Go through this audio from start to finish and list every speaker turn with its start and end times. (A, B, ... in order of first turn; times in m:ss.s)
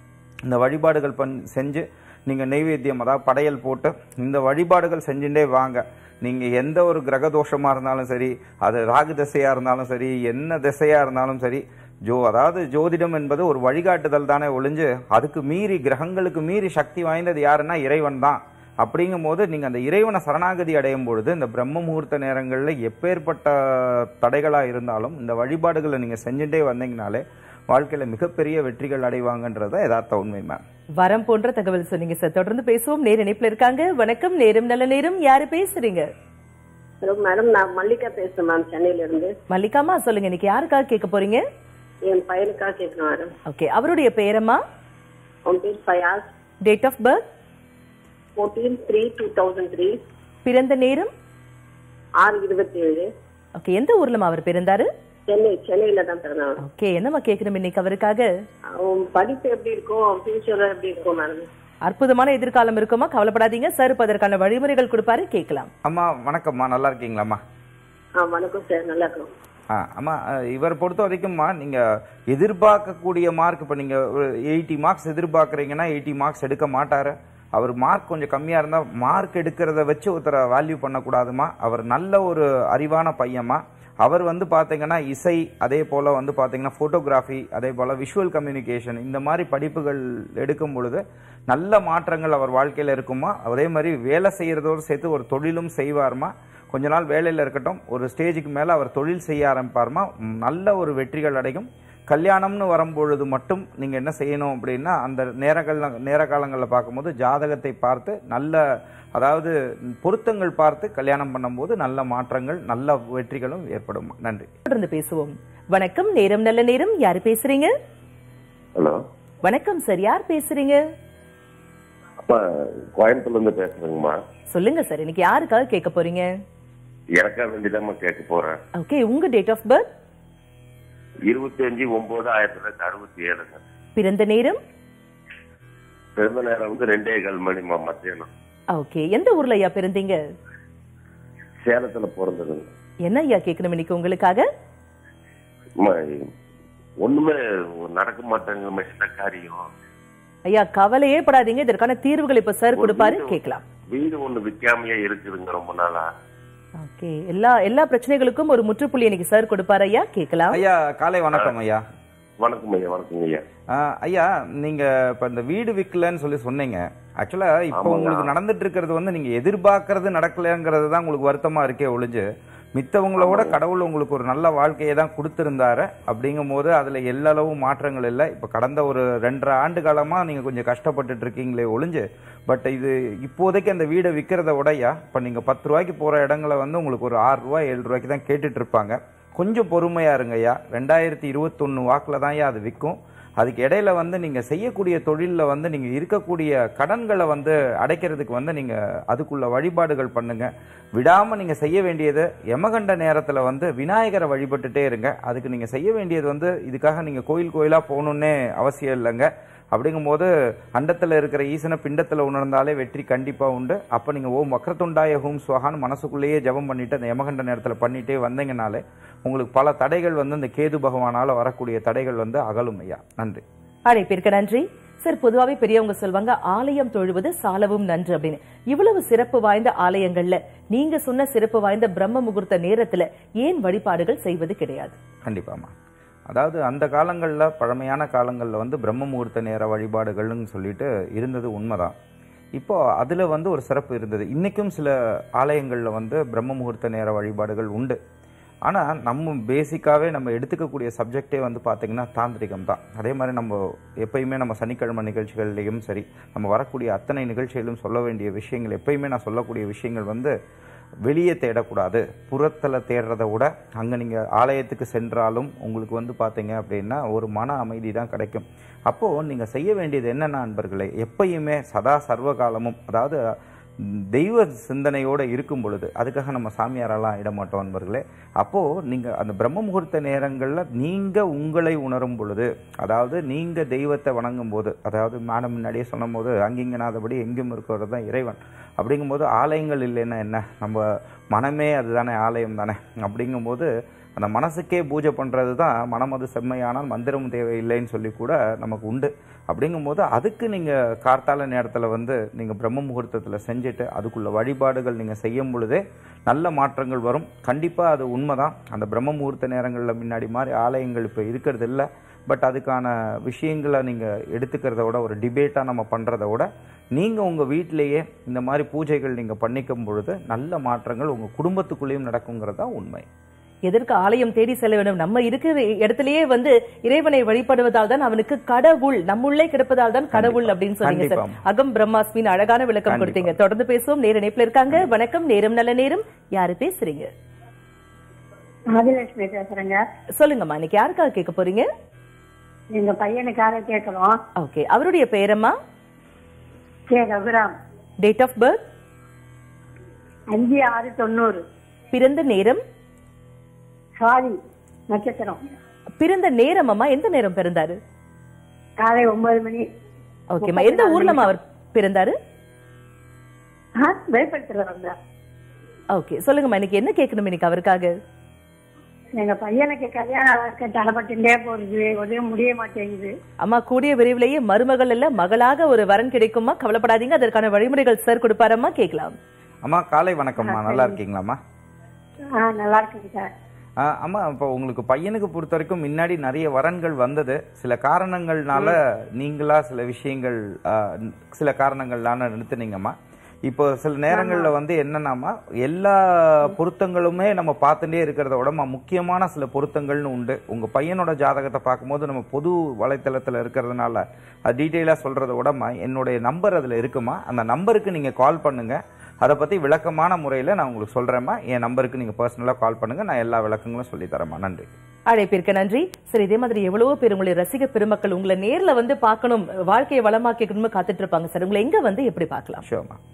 0:00.5-0:30.6 A
0:31.0-0:36.1 B
0:37.0-0:39.3 C
0:39.5-0:41.4 B
0:42.0-0:43.3 C
0:43.5-0:44.6 B
0:45.4-0:46.2 C
0:46.6-0:47.2 B
0:48.4-0:50.0 C
0:50.4-0:51.1 B
0:52.2-0:53.1 C
0:53.6-0:54.9 B
0:55.3-0:56.6 C
0:56.6-0:58.2 B
0:58.7-1:01.5 C
1:01.8-1:05.7 B
1:05.8-1:07.4 A
1:08.2-1:09.3 C
1:09.7-1:48.6 A
1:49.2-1:54.5 A
1:54.6-1:57.7 B
1:59.4-2:00.8 B
2:03.0-2:04.1 D
2:04.5-2:06.3 B
2:07.2-2:08.5 D
2:08.8-2:09.8 B
2:11.3-2:13.6 D
2:14.0-2:14.6 B
2:16.4-2:18.2 D
2:18.7-2:20.2 B
2:21.8-2:22.6 D
2:23.0-2:24.4 B
2:28.0-2:29.5 D
2:30.4-2:33.6 B
2:32.8-2:33.3 D
2:34.0-2:36.0 D
2:36.8-2:40.6 B
2:40.5-2:41.8 A
2:42.5-2:43.4 D
2:43.7-2:52.2 A
2:52.8-3:43.4 A
3:43.9-3:55.0 B
3:55.2-3:55.7 A
3:56.3-4:01.9 A
4:02.6-4:08.0 A
4:08.7-4:20.3 A
4:21.0-4:33.2 A
4:33.8-5:23.0 A
5:23.7-5:37.1 B
5:30.1-5:31.4 A
5:32.9-5:33.4 A
5:38.7-5:39.8 E
5:40.2-5:41.7 B
5:42.7-5:44.2 E
5:44.4-5:45.6 B
5:46.9-5:47.5 E
5:48.0-5:48.6 B
5:50.3-5:51.4 E
5:51.9-5:52.6 B
5:54.0-5:54.4 E
5:54.9-5:55.4 E
5:56.0-5:57.8 B
5:58.8-5:59.6 E
6:00.3-6:02.2 B
6:00.4-6:01.3 E
6:03.8-6:04.9 E
6:05.9-6:07.9 B
6:09.2-6:13.1 E
6:13.4-6:19.1 B
6:19.6-6:21.4 A
6:20.4-6:21.0 E
6:22.4-6:23.3 E
6:23.8-6:32.9 A
6:33.5-6:54.7 A
6:55.1-7:02.6 B
7:02.6-7:03.0 A